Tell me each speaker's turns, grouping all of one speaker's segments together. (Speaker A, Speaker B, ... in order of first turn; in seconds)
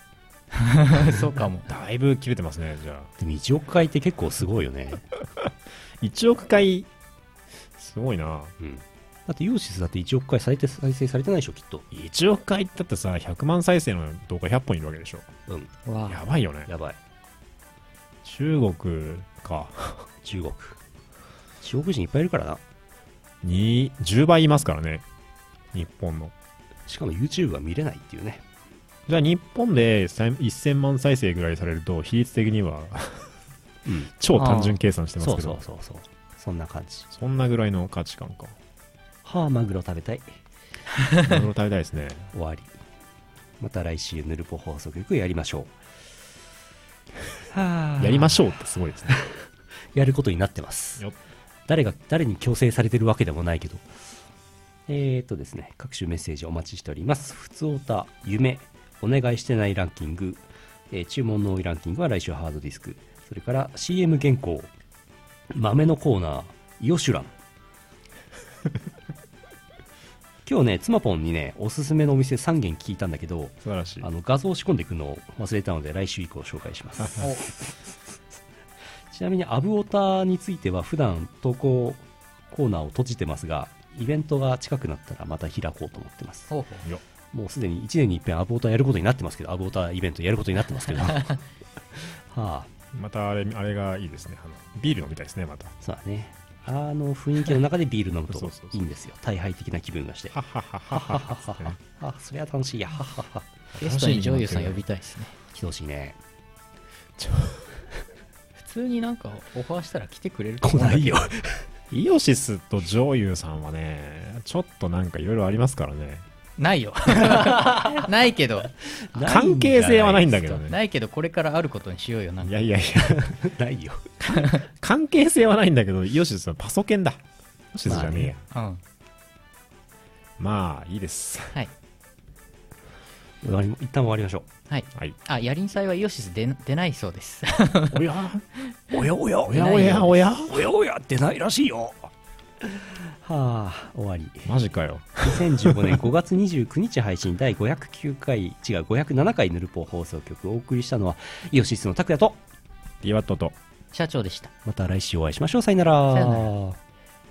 Speaker A: 0.6-1.7, 15.8-16.2, 34.4-34.8, 77.2-77.4, 86.5-86.8, 103.8-105.3, 108.6-111.3, 116.6-118.7, 120.6-122.6, 128.5-128.8, 134.7-138.1, 139.5-140.2, 153.9-154.5, 156.1-156.5
Speaker B: 1.7-3.1, 6.0-6.9, 7.8-8.5, 11.9-15.3, 16.1-16.7, 18.2-20.1, 23.4-25.0, 25.7-26.3, 29.1-33.3, 34.2-35.6, 37.1-38.5, 41.2-42.3, 48.0-49.2, 73.6-74.1, 92.9-95.7, 98.3-98.8, 100.3-101.8, 103.7-104.8, 107.2-107.6, 111.9-116.2, 119.2-120.8, 122.4-123.4, 124.2-128.4, 130.4-131.6, 137.9-138.4, 139.4-140.7, 144.4-146.0, 153.0-153.6
Speaker C: 3.2-5.0, 8.6-11.8, 15.5-15.7, 16.6-17.0, 20.2-20.8, 21.6-22.6, 26.9-28.4, 33.9-34.1, 35.2-37.1, 39.2-40.3, 42.3-42.8, 43.6-45.7, 47.5-48.4, 49.9-51.0, 51.7-53.8, 54.9-64.7, 65.5-67.3, 70.5-77.2, 79.1-86.5, 87.3-91.3, 92.3-92.7, 95.8-100.3, 100.9-103.5, 105.5-106.2, 110.6-111.6, 117.4-117.9, 119.0-120.6, 123.0-124.0, 127.8-128.3, 133.4-134.5, 138.9-142.1, 142.7-144.5, 145.2-152.4, 154.6-156.8